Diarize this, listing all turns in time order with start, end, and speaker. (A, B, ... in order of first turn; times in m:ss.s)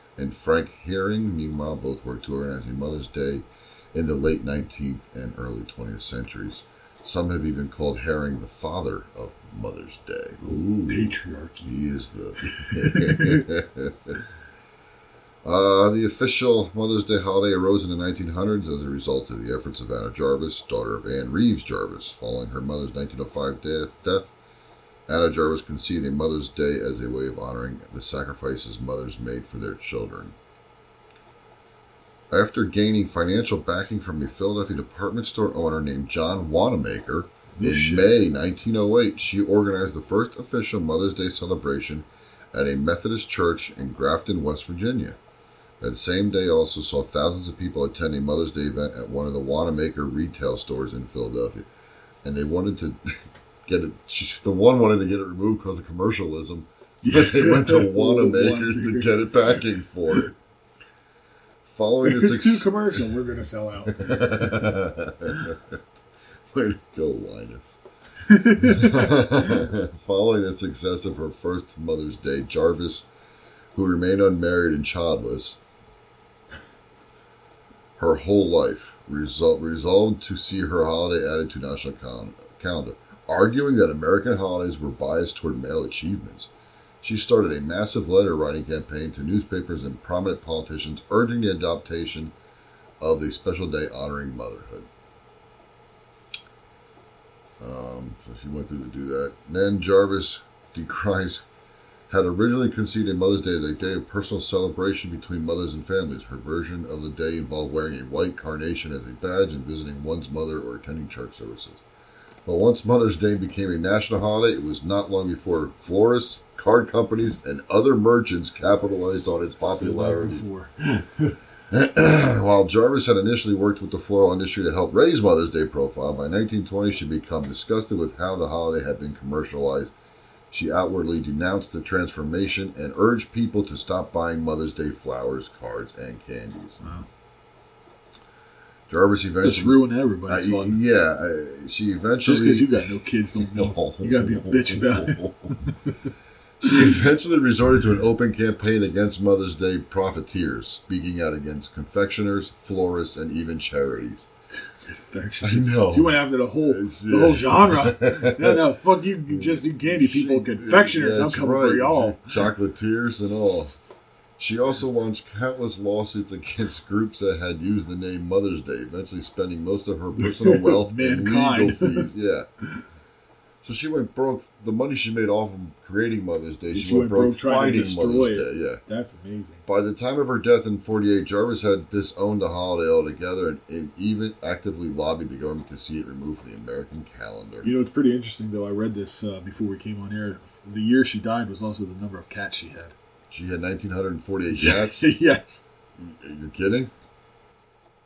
0:00.2-0:14.1 A
0:10.4-0:11.7 B
0:12.4-0:13.4 B
0:15.4-0:24.3 A
0:25.1-0:30.4 A
0:32.3-0:45.2 A
0:37.6-0:38.2 B
0:45.8-0:51.7 A
0:52.2-0:53.0 A
0:53.7-1:00.4 A
0:57.0-0:59.6 B
1:01.6-1:02.7 A
1:02.0-1:04.5 B
1:03.9-1:05.8 A
1:06.5-1:07.8 A
1:08.3-1:09.6 B
1:08.7-1:13.1 A
1:13.8-1:15.6 A
1:18.0-1:26.5 A
1:27.0-1:32.3 A
1:33.0-1:34.9 A
1:37.6-1:41.5 A
1:42.1-1:51.8 A
1:52.5-2:00.5 A
1:59.6-2:01.3 B
2:01.7-2:09.9 A
2:10.5-2:16.8 A
2:16.8-2:17.1 B
2:18.9-2:22.7 A
2:19.4-2:20.8 B
2:22.2-2:25.9 B
2:23.5-2:25.5 A
2:26.6-2:34.3 A
2:26.6-2:26.9 B
2:34.8-2:42.4 B
2:35.4-2:38.6 A
2:39.3-2:43.7 A
2:44.4-2:52.5 A
2:50.2-2:52.1 B
2:53.6-2:58.8 A
2:56.7-2:59.6 B
2:59.7-3:07.7 A
3:07.6-3:12.9 B
3:13.3-3:15.1 A
3:14.5-3:15.6 B
3:16.0-3:16.9 A